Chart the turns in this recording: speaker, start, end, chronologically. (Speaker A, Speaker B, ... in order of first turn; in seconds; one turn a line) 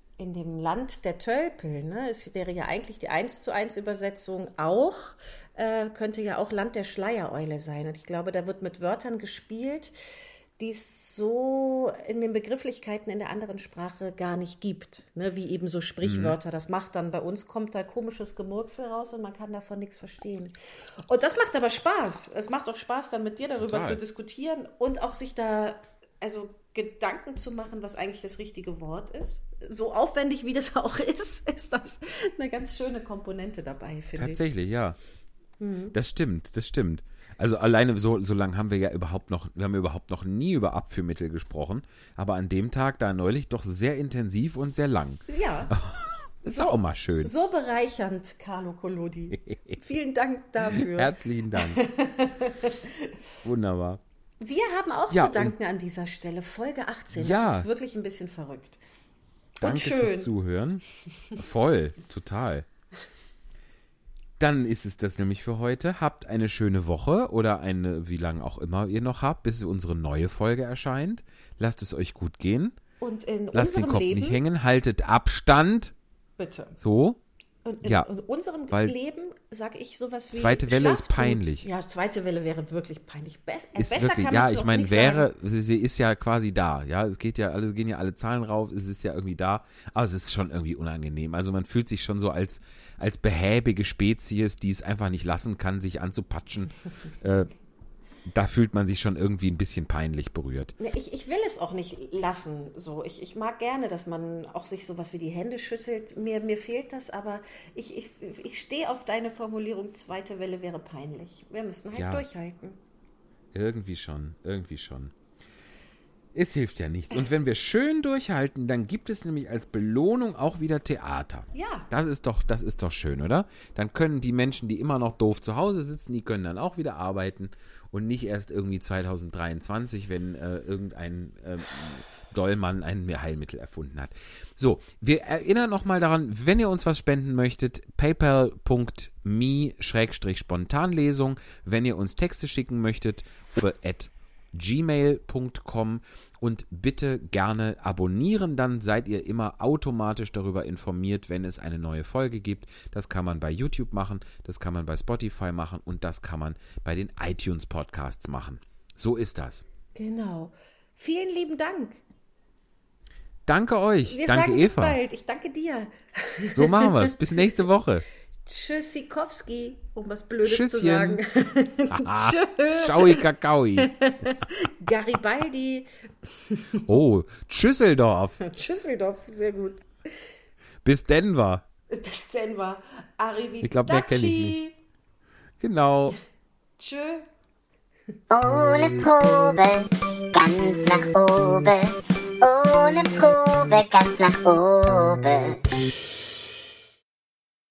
Speaker A: 0.2-9.9
Speaker A: 10.6-20.6
Speaker B: 16.0-16.4
Speaker A: 21.1-34.4
Speaker B: 23.6-24.0
Speaker B: 34.1-35.0
Speaker A: 35.6-35.9
Speaker B: 35.9-47.3
Speaker A: 45.3-45.7
Speaker A: 46.4-53.1
Speaker B: 49.3-49.8
Speaker B: 50.6-51.8
Speaker B: 53.4-54.0
Speaker A: 54.4-58.8
Speaker B: 55.1-55.5
Speaker B: 57.1-57.7
Speaker A: 59.6-60.3
Speaker B: 59.6-60.8
Speaker B: 61.4-62.6
Speaker B: 64.4-72.8
Speaker A: 73.0-74.4
Speaker B: 73.5-75.9
Speaker A: 76.4-76.8
Speaker B: 76.8-77.2
Speaker A: 77.6-85.3
Speaker B: 77.8-78.1
Speaker B: 78.7-78.9
Speaker B: 80.3-81.7
Speaker B: 83.8-97.5
Speaker B: 98.2-100.7
Speaker A: 100.8-112.8
Speaker B: 111.9-112.2
Speaker B: 113.5-115.1
Speaker B: 116.3-159.6
Speaker A: 121.5-121.9
Speaker A: 159.9-162.0
Speaker B: 163.4-165.0
Speaker A: 164.1-167.1
Speaker B: 166.5-168.1
Speaker A: 168.4-173.2
Speaker B: 170.4-171.2
Speaker B: 171.9-173.9
Speaker A: 173.8-175.9
Speaker A: 176.5-176.8
Speaker B: 176.8-178.4
Speaker A: 178.5-179.8
Speaker B: 180.8-181.7
Speaker A: 181.9-184.7
Speaker B: 183.6-184.6
Speaker B: 185.6-186.2
Speaker A: 186.8-187.3
Speaker C: 188.3-195.6